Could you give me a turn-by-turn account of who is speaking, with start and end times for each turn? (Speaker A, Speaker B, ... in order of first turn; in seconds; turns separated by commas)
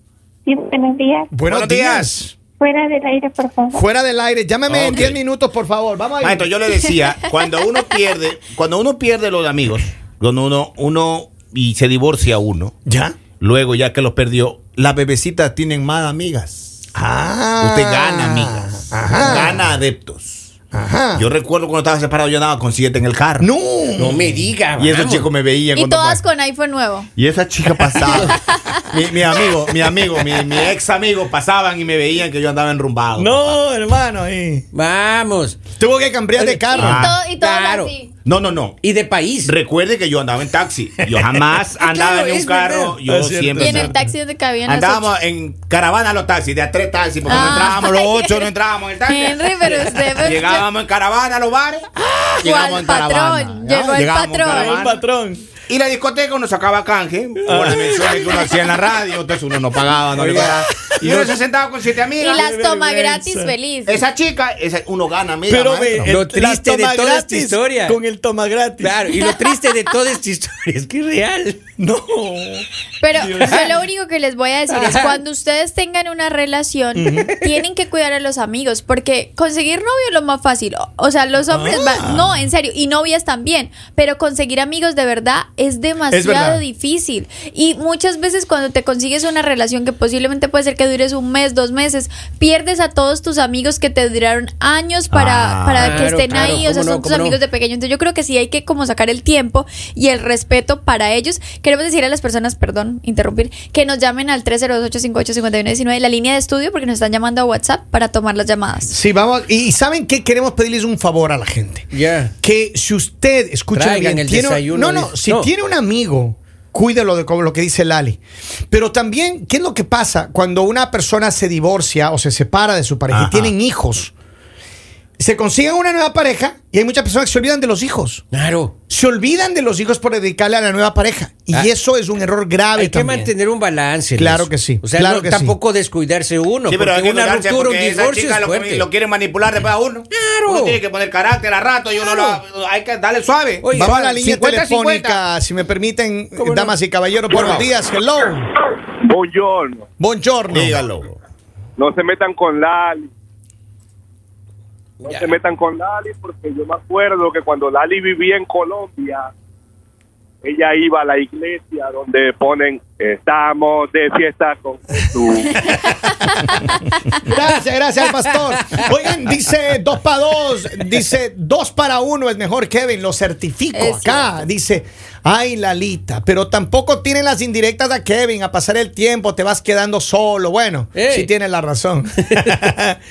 Speaker A: 0.5-1.3, Speaker B: 1.3-2.3, Speaker C: 1.5-2.2, Speaker A: 2.6-3.8, Speaker B: 3.7-6.5, Speaker C: 4.7-5.2, Speaker C: 6.2-12.7, Speaker B: 12.8-13.2, Speaker C: 13.4-16.7, Speaker B: 16.9-19.7, Speaker C: 17.6-20.5, Speaker B: 20.7-21.3, Speaker C: 21.1-23.5, Speaker B: 23.4-24.4, Speaker D: 23.9-25.3, Speaker C: 24.8-26.2, Speaker E: 25.8-27.1, Speaker C: 27.1-33.6, Speaker B: 27.7-28.2, Speaker E: 28.5-28.8, Speaker B: 29.7-30.1, Speaker B: 33.1-34.7, Speaker D: 34.7-35.6, Speaker B: 35.7-37.1, Speaker D: 36.4-37.9, Speaker E: 36.7-38.1, Speaker C: 36.8-37.2, Speaker C: 38.2-38.8, Speaker D: 38.8-39.5, Speaker C: 39.5-43.9, Speaker B: 41.0-41.4, Speaker D: 41.8-43.0, Speaker B: 43.0-44.1, Speaker E: 43.6-45.1, Speaker C: 44.6-54.9, Speaker E: 47.2-48.5, Speaker B: 47.3-47.7, Speaker E: 49.0-50.6, Speaker E: 52.4-54.8, Speaker B: 54.4-55.4, Speaker C: 55.7-62.4, Speaker B: 57.4-58.5, Speaker B: 60.1-61.4, Speaker D: 60.2-60.5, Speaker E: 62.2-64.0, Speaker B: 62.2-63.5, Speaker C: 63.9-66.1, Speaker B: 65.5-69.1, Speaker D: 66.0-68.0, Speaker D: 68.8-71.6, Speaker B: 71.8-72.6, Speaker E: 73.0-108.9, Speaker B: 73.2-73.8, Speaker D: 74.7-75.2, Speaker B: 76.9-77.3, Speaker B: 81.5-82.4, Speaker B: 86.1-86.6, Speaker D: 95.1-97.4, Speaker C: 95.3-96.7, Speaker B: 108.9-111.9, Speaker D: 111.9-112.3, Speaker B: 112.4-118.2, Speaker D: 113.7-115.5, Speaker B: 118.7-124.1, Speaker C: 123.1-123.5, Speaker B: 125.2-128.2, Speaker D: 128.3-128.7, Speaker B: 128.9-133.3, Speaker D: 132.8-138.9, Speaker B: 134.2-135.5, Speaker C: 136.7-145.1, Speaker D: 140.1-140.8, Speaker D: 143.6-144.3, Speaker B: 143.8-148.5, Speaker D: 146.4-146.7, Speaker C: 147.3-147.7, Speaker F: 149.1-149.8, Speaker B: 150.0-150.8, Speaker C: 150.5-151.2, Speaker F: 151.8-153.1, Speaker D: 155.0-155.3, Speaker F: 155.0-159.3, Speaker F: 160.4-165.8, Speaker E: 165.7-166.7, Speaker B: 167.2-183.0, Speaker E: 173.7-174.3, Speaker D: 180.9-181.3